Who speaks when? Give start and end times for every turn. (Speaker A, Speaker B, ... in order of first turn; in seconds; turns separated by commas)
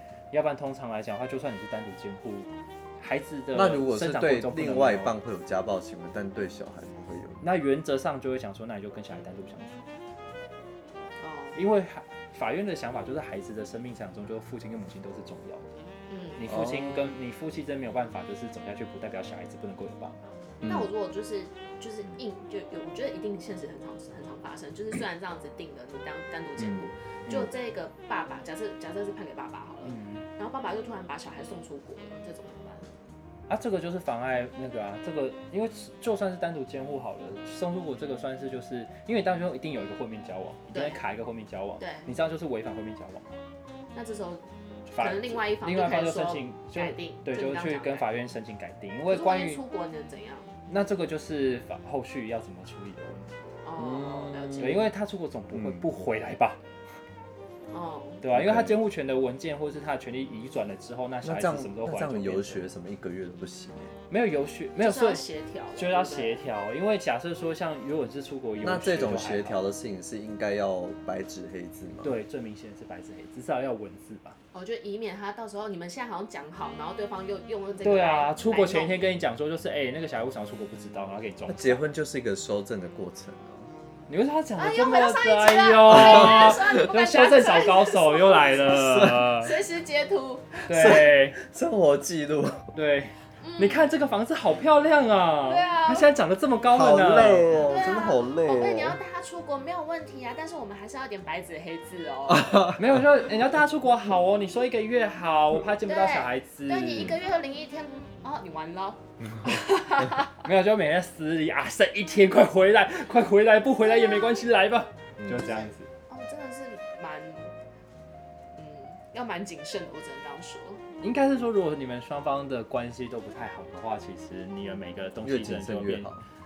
Speaker A: 0.3-5.2, Speaker B: 3.5-7.4, Speaker A: 7.4-9.8, Speaker C: 11.2-11.6, Speaker A: 11.6-15.7, Speaker C: 16.1-16.4, Speaker A: 16.4-20.2, Speaker B: 16.5-17.2, Speaker B: 20.6-20.9, Speaker C: 20.6-32.9, Speaker B: 26.6-27.5, Speaker A: 29.9-30.3, Speaker A: 33.5-43.4, Speaker C: 40.7-41.0, Speaker C: 41.8-42.1, Speaker C: 43.9-44.4, Speaker A: 44.9-49.6, Speaker C: 45.0-48.1, Speaker C: 49.1-50.6, Speaker A: 50.7-53.3, Speaker C: 53.6-54.9, Speaker B: 53.8-54.9, Speaker A: 54.6-56.6, Speaker B: 55.5-55.9, Speaker C: 57.7-58.2, Speaker A: 58.2-62.6, Speaker B: 58.3-58.8, Speaker B: 61.2-64.0, Speaker A: 64.1-69.6, Speaker C: 64.8-66.5, Speaker B: 68.6-72.2, Speaker A: 72.0-74.4, Speaker C: 74.5-79.0, Speaker A: 77.8-81.9, Speaker B: 81.5-83.7, Speaker A: 84.1-89.6, Speaker C: 84.6-91.0, Speaker B: 85.9-86.7, Speaker B: 88.7-89.3, Speaker A: 90.7-91.4, Speaker B: 90.7-92.7, Speaker A: 92.7-97.7, Speaker C: 93.4-93.9, Speaker C: 95.5-96.1, Speaker B: 96.7-99.0, Speaker C: 97.6-102.7, Speaker B: 102.3-103.0, Speaker A: 102.8-107.2, Speaker C: 105.8-110.4, Speaker A: 110.4-115.9, Speaker C: 113.8-114.5, Speaker B: 115.2-115.6, Speaker C: 115.3-117.5, Speaker C: 118.5-120.8, Speaker A: 121.0-126.1, Speaker B: 125.2-126.2